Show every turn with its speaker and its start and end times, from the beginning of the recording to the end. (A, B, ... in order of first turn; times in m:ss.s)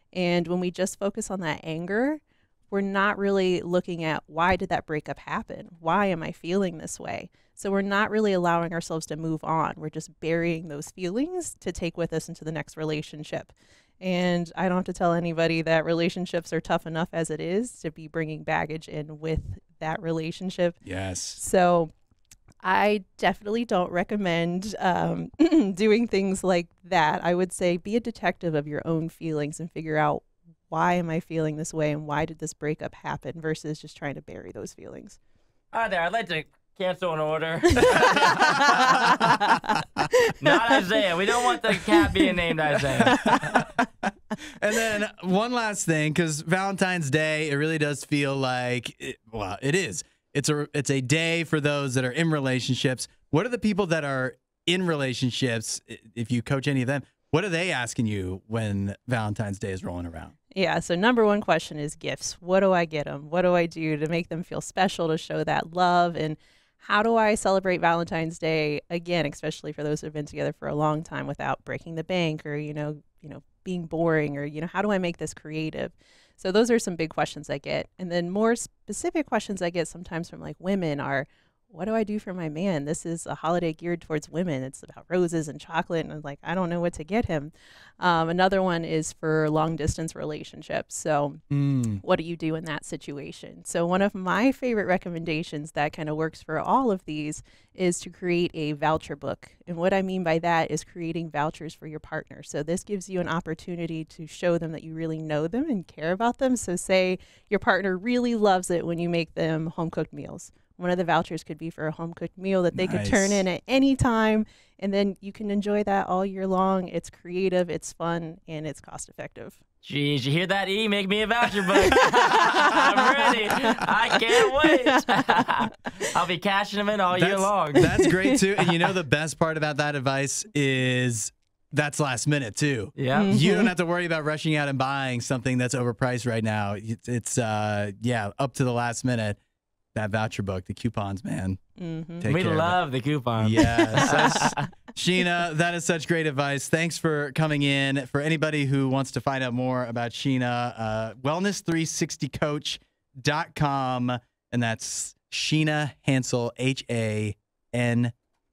0:00.1-0:20.8 A
0:20.8-0:21.4 B
0:21.4-0:21.9 A
0:22.6-0:35.2 A
0:35.7-0:38.1 C
0:37.7-0:40.8 A
0:37.9-0:39.4 B
0:40.4-0:43.5 C
0:43.0-0:43.4 A
0:43.0-0:43.8 B
0:44.6-1:00.3 B
1:00.5-1:31.4 A
1:31.5-1:32.0 B
1:32.0-1:59.6 A
1:52.7-1:53.4 B
1:59.8-2:07.8 C
2:01.8-2:03.8 A
2:04.4-2:05.9 A
2:07.1-2:19.4 B
2:07.7-2:08.4 A
2:13.0-2:13.3 C
2:13.1-2:13.7 A
2:19.9-2:21.6 B
2:21.8-2:22.3 A
2:22.2-2:22.8 B
2:22.3-2:24.7 C
2:23.4-2:38.1 B
2:23.6-2:24.4 A